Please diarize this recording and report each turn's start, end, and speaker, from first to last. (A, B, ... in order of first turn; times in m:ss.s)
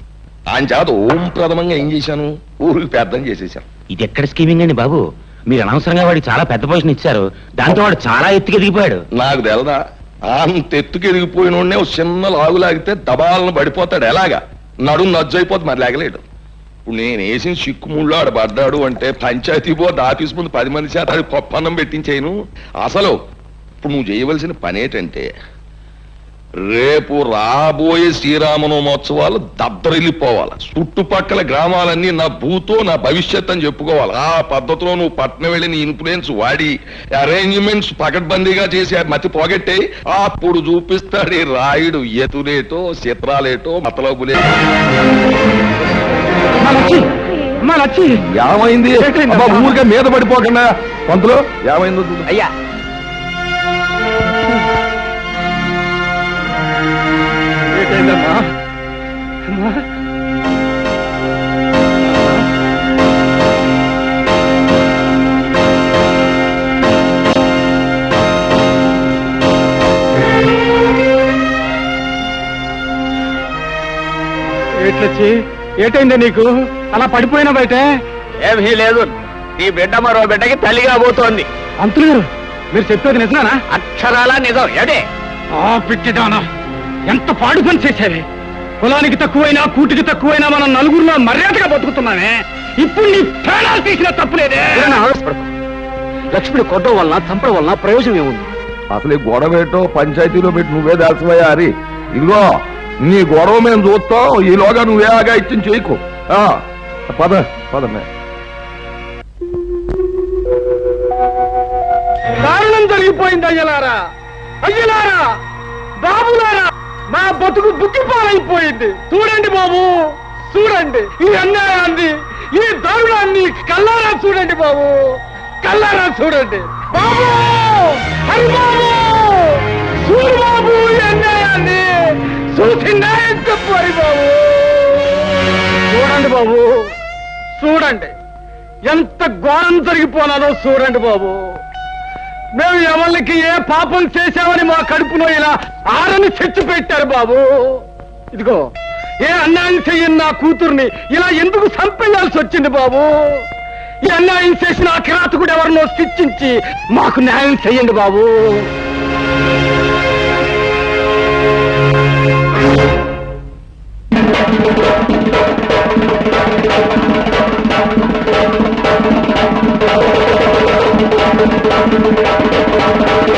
0:00.5-0:03.6 A
0:04.0-0:09.0 B
0:09.2-0:09.8 A
0:10.3-0:16.2 A
0:16.9-0:23.2 A
0:23.8-0:25.3 A
0:26.6-0:44.5 A
0:46.6-0:47.1 C
0:47.6-0:48.2 C
0:48.4-0:52.3 A
0:49.0-0:49.8 C
0:57.8-0:58.5 C
1:14.8-1:17.8 C
1:18.5-1:19.1 D
1:19.6-1:21.5 D
1:21.8-1:23.6 C
1:23.7-1:25.0 D
1:25.6-1:26.4 C
1:27.1-1:28.2 C
1:28.8-1:35.0 C
1:34.8-1:35.5 E
1:36.3-1:38.5 E
1:38.9-1:48.1 A
1:52.4-1:54.0 C
1:54.6-1:55.2 C
1:56.0-2:05.0 C
2:05.6-2:11.9 C
2:12.5-2:15.1 C
2:15.9-2:16.7 C
2:17.6-2:18.1 C
2:18.9-2:21.4 C
2:22.6-2:27.4 C
2:28.3-2:28.7 C
2:29.2-2:33.1 C
2:34.1-2:38.7 C